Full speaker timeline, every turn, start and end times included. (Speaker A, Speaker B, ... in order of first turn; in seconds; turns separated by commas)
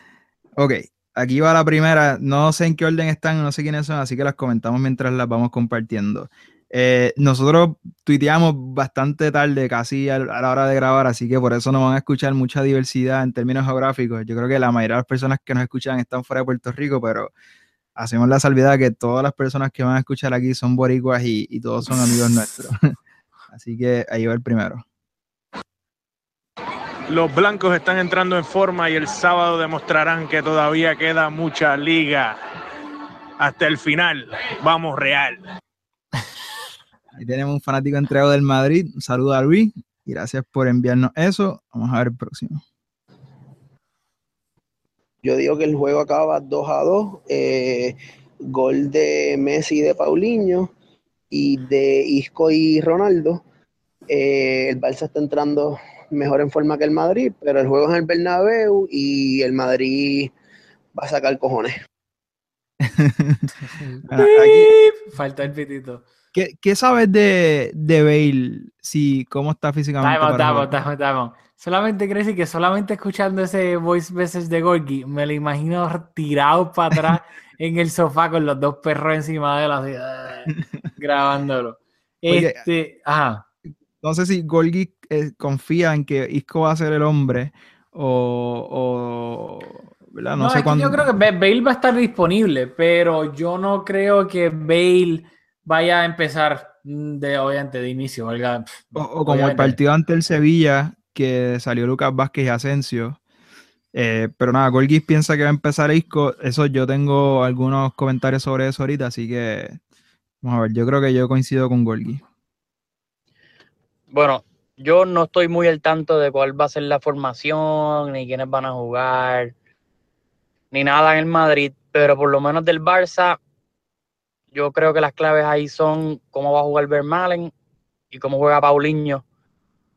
Speaker A: 0.6-17.3, Speaker A: 17.9-22.8, Speaker A: 23.5-24.8, Speaker B: 27.1-32.4, Speaker B: 33.4-35.4, Speaker A: 37.1-42.6, Speaker C: 45.2-48.0, Speaker C: 48.5-50.7, Speaker C: 51.3-53.4, Speaker C: 54.1-60.3, Speaker C: 60.9-61.7, Speaker A: 62.8-63.5, Speaker D: 63.8-66.0, Speaker A: 64.0-64.7, Speaker A: 66.3-70.8, Speaker D: 70.0-83.4, Speaker A: 82.3-82.6, Speaker A: 84.0-91.1, Speaker D: 90.4-99.8, Speaker A: 98.9-103.2, Speaker A: 103.9-109.8, Speaker A: 110.4-112.2, Speaker E: 114.1-119.5, Speaker E: 120.7-123.4, Speaker E: 124.5-127.5, Speaker E: 128.1-129.2